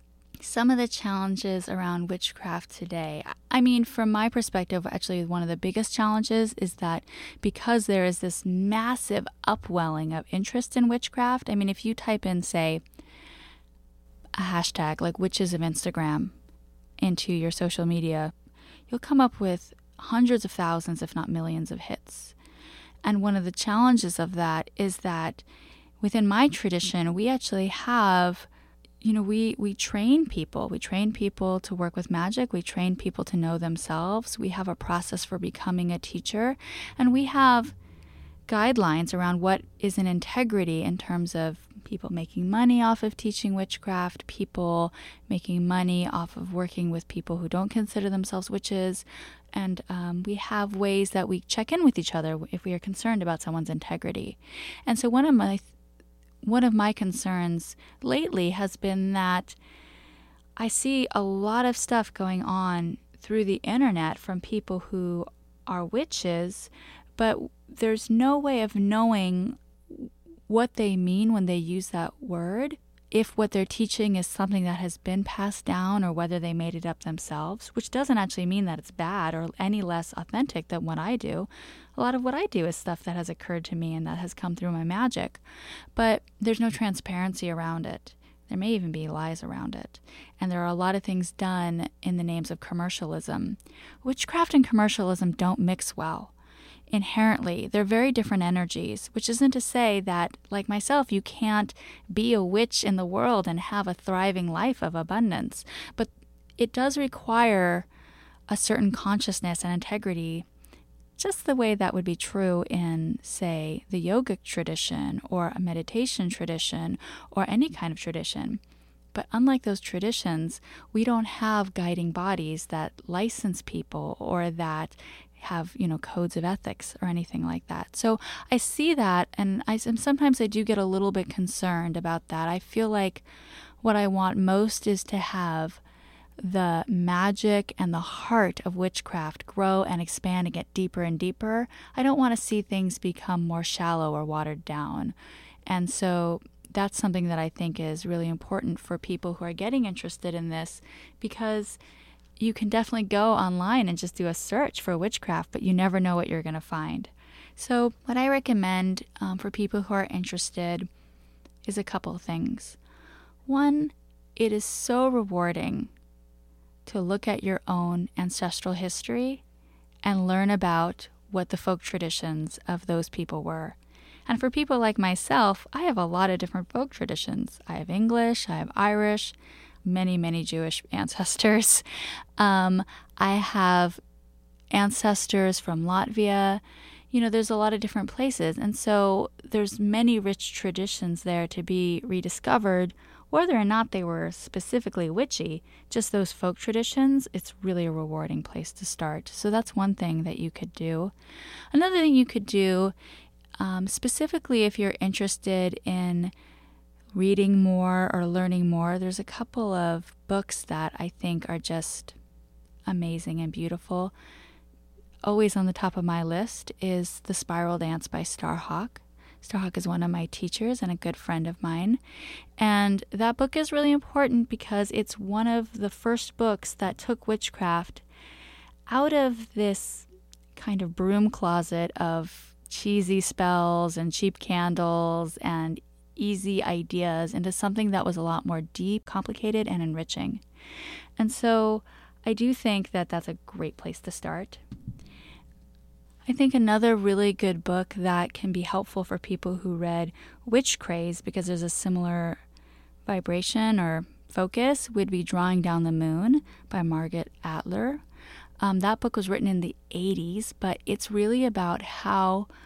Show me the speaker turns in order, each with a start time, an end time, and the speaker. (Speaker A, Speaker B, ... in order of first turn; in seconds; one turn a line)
Speaker A: 0.4-12.8
Speaker A: 14.4-16.3
Speaker A: 17.0-18.3
Speaker A: 18.9-22.3
Speaker A: 23.0-25.4
Speaker A: 26.0-28.5
Speaker A: 29.0-37.7
Speaker A: 38.5-55.7
Speaker A: 56.4-59.5
Speaker A: 60.6-85.4
Speaker A: 86.0-96.3
Speaker A: 96.9-107.9
Speaker A: 108.5-110.5
Speaker A: 111.2-118.6
Speaker A: 119.1-133.2
Speaker A: 133.8-135.8
Speaker A: 136.4-145.1
Speaker A: 145.7-151.8
Speaker A: 152.4-160.9
Speaker A: 161.6-162.8
Speaker A: 163.4-165.9
Speaker A: 166.8-169.4
Speaker A: 170.0-181.8
Speaker A: 182.4-184.0
Speaker A: 184.7-201.1
Speaker A: 201.7-202.9
Speaker A: 203.6-206.3
Speaker A: 207.1-212.2
Speaker A: 212.8-214.1
Speaker A: 215.2-222.0
Speaker A: 222.6-228.0
Speaker A: 228.9-240.4
Speaker A: 241.2-244.6
Speaker A: 246.2-252.4
Speaker A: 253.1-258.0
Speaker A: 258.6-262.5